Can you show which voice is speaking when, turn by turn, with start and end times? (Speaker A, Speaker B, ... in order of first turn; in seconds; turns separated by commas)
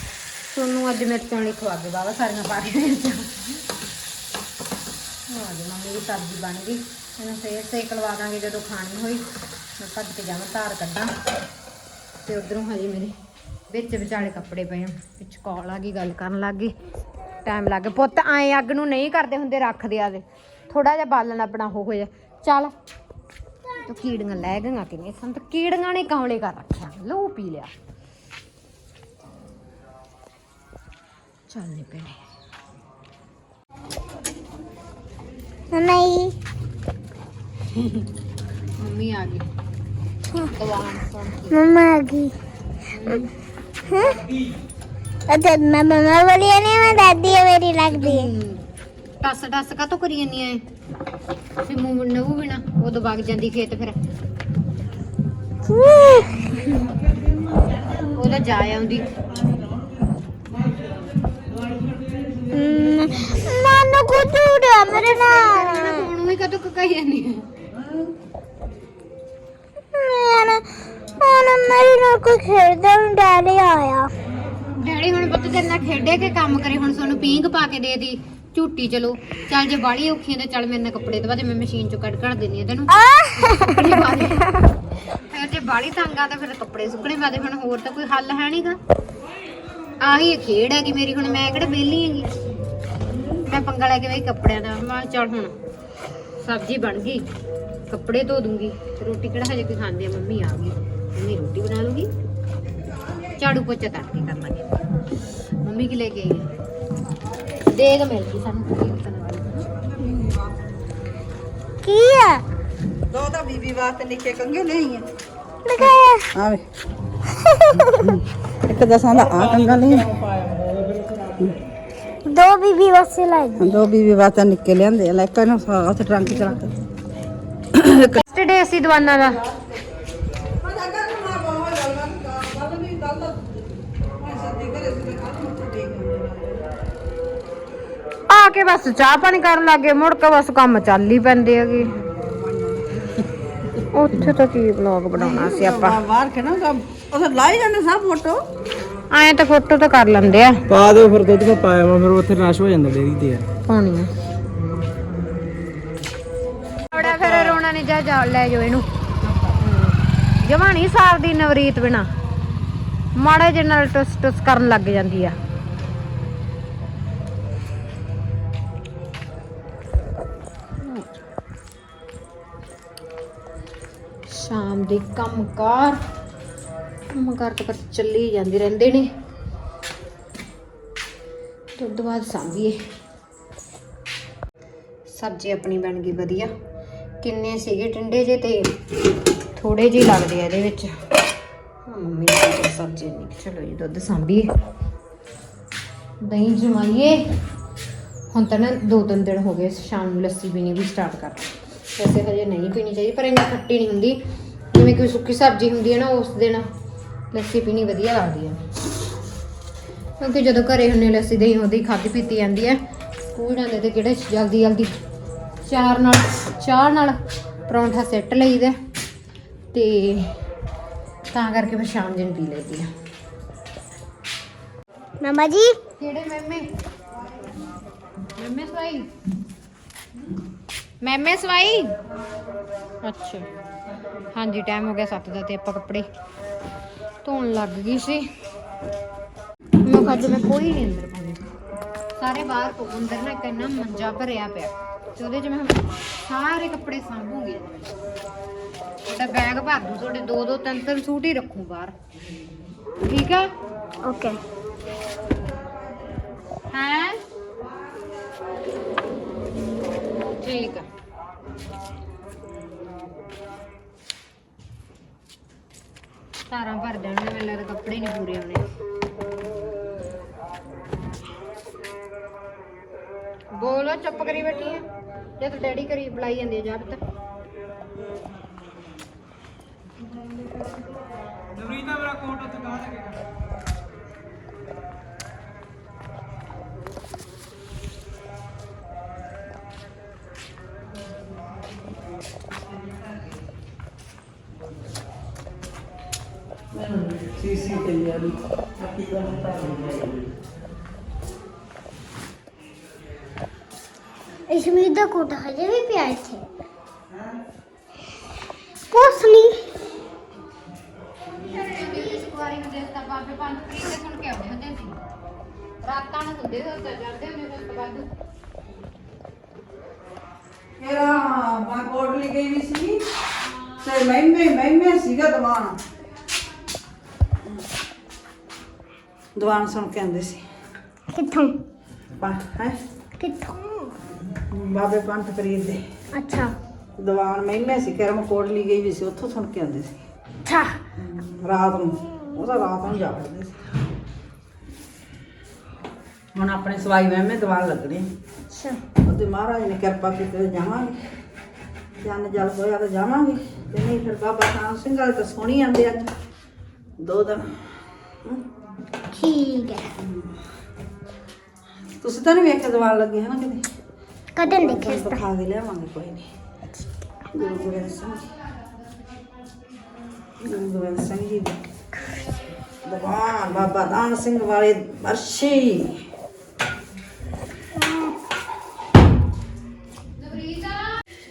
Speaker A: 0.5-3.3, Speaker A: 5.3-9.3, Speaker A: 9.8-11.2, Speaker A: 12.2-13.2, Speaker A: 13.7-16.8, Speaker A: 17.4-22.7, Speaker A: 23.8-27.7, Speaker A: 31.5-32.2, Speaker B: 35.7-36.4, Speaker A: 38.8-39.5, Speaker A: 40.5-41.7, Speaker B: 41.5-42.4, Speaker A: 43.0-43.3, Speaker B: 43.9-44.2, Speaker C: 44.1-44.5, Speaker B: 45.3-48.3, Speaker A: 47.8-48.6, Speaker A: 49.2-50.6, Speaker A: 51.6-54.0, Speaker B: 55.6-56.8, Speaker A: 58.0-59.1, Speaker B: 62.5-66.1, Speaker A: 65.0-67.5, Speaker B: 70.0-74.1, Speaker A: 74.8-84.5, Speaker B: 82.9-84.0, Speaker A: 85.2-88.8, Speaker A: 90.0-92.3, Speaker A: 93.3-95.5, Speaker A: 96.4-97.2, Speaker A: 97.9-102.1, Speaker A: 103.4-104.8, Speaker A: 105.6-106.5, Speaker A: 107.7-109.7, Speaker D: 110.1-110.4, Speaker B: 111.8-112.5, Speaker D: 113.1-115.1, Speaker B: 115.7-116.3, Speaker D: 116.3-116.7, Speaker B: 117.3-118.2, Speaker D: 118.6-120.1, Speaker C: 119.1-121.5, Speaker B: 122.2-123.8, Speaker D: 123.6-126.7, Speaker D: 127.8-128.2, Speaker A: 128.1-129.4, Speaker D: 130.6-133.4, Speaker D: 134.2-136.7, Speaker A: 138.3-141.9, Speaker D: 142.2-143.3, Speaker A: 143.9-146.0, Speaker D: 145.2-148.4, Speaker A: 149.1-150.6, Speaker C: 150.7-153.5, Speaker A: 153.7-154.1, Speaker A: 156.9-158.9, Speaker D: 157.0-157.6, Speaker A: 159.4-162.1, Speaker A: 163.2-165.4, Speaker A: 170.8-171.1, Speaker A: 174.3-176.0, Speaker A: 177.1-179.1, Speaker A: 181.8-182.8, Speaker A: 185.1-186.5, Speaker A: 187.2-188.7, Speaker A: 189.6-191.0, Speaker A: 191.8-194.5, Speaker A: 196.2-197.2, Speaker A: 198.3-204.2, Speaker A: 204.7-206.7, Speaker A: 207.3-208.6, Speaker A: 210.2-212.8, Speaker A: 213.3-214.9, Speaker A: 215.7-218.8, Speaker A: 219.7-220.3, Speaker A: 221.3-222.9, Speaker B: 225.2-225.8, Speaker A: 226.0-226.7, Speaker A: 228.4-229.1, Speaker A: 231.0-231.9, Speaker A: 233.0-233.5, Speaker A: 234.3-236.1, Speaker A: 237.2-238.3, Speaker A: 239.8-241.5, Speaker A: 242.2-247.9, Speaker A: 249.1-251.9, Speaker A: 253.0-253.5, Speaker B: 254.0-254.4, Speaker A: 256.7-257.2, Speaker A: 260.4-260.9, Speaker A: 266.5-268.7, Speaker A: 273.5-274.9, Speaker A: 275.4-277.0, Speaker C: 281.6-283.2, Speaker D: 296.9-297.9, Speaker C: 297.4-300.1, Speaker B: 304.5-306.4, Speaker B: 308.9-309.7, Speaker A: 311.3-315.0, Speaker A: 315.8-318.1, Speaker D: 320.8-323.0, Speaker D: 323.8-325.8, Speaker D: 329.4-330.4, Speaker B: 331.1-331.6, Speaker D: 332.2-332.8, Speaker B: 333.2-334.0, Speaker D: 334.5-335.8, Speaker B: 336.1-336.6, Speaker D: 337.0-340.0, Speaker B: 340.5-340.8, Speaker D: 341.0-343.6, Speaker D: 346.3-348.1, Speaker B: 348.5-348.8, Speaker D: 349.0-351.0, Speaker D: 352.0-356.1, Speaker D: 357.0-357.7, Speaker B: 359.1-359.9, Speaker D: 362.0-363.6, Speaker B: 364.4-365.2, Speaker D: 364.4-366.3, Speaker D: 367.3-368.3, Speaker D: 370.4-371.6, Speaker D: 372.8-376.0, Speaker A: 380.3-380.7